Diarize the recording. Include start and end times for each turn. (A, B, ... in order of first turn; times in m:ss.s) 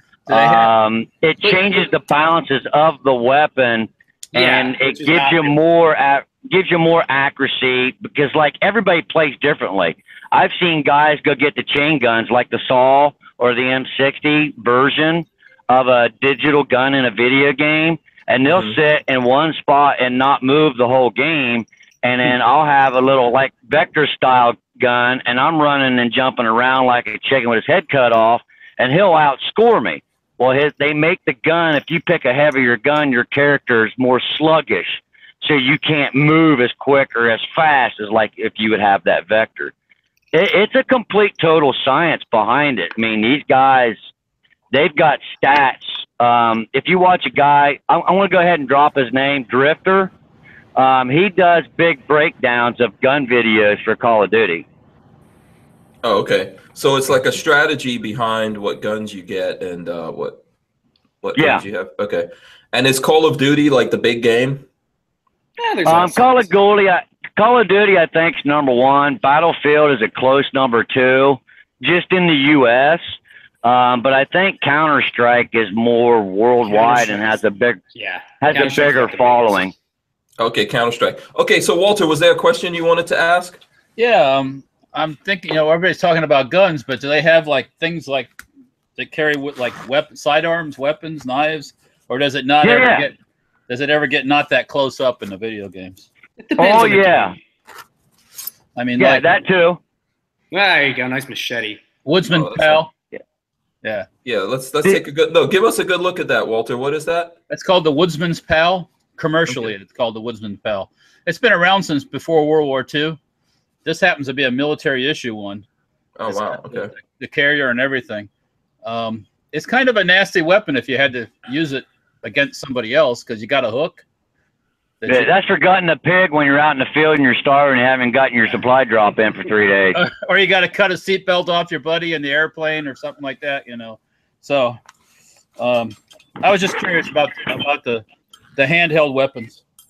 0:00.3-0:00.7 A
0:00.3-0:39.7 B
0:01.4-0:01.8 C
0:04.3-0:05.6 C
0:18.5-0:18.8 D
0:40.3-0:44.0 B
0:44.7-0:50.1 B
0:50.8-0:54.6 B
0:56.0-1:00.4 D
1:01.2-1:04.6 D
1:01.4-1:01.6 B
1:05.6-1:06.5 C
1:05.8-1:13.0 B
1:13.6-1:17.8 B
1:16.7-1:17.3 C
1:17.9-1:19.7 C
1:18.4-1:19.7 B
1:20.4-1:23.6 D
1:24.0-1:28.4 A
1:29.0-1:33.1 A
1:32.6-1:33.1 B
1:33.7-1:36.1 A
1:36.4-1:37.4 C
1:36.6-1:37.3 B
1:38.8-1:39.2 A
1:39.0-1:39.8 B
1:40.5-1:41.8 C
1:42.0-1:42.9 A
1:42.3-1:42.8 D
1:44.2-1:47.4 D
1:47.5-1:53.2 A
1:53.8-1:55.6 A
1:56.2-1:56.9 D
1:56.3-1:58.3 A
1:58.8-2:04.0 A
2:05.0-2:05.3 A
2:05.1-2:10.0 B
2:09.9-2:14.8 A
2:15.6-2:18.0 A
2:18.6-2:19.6 A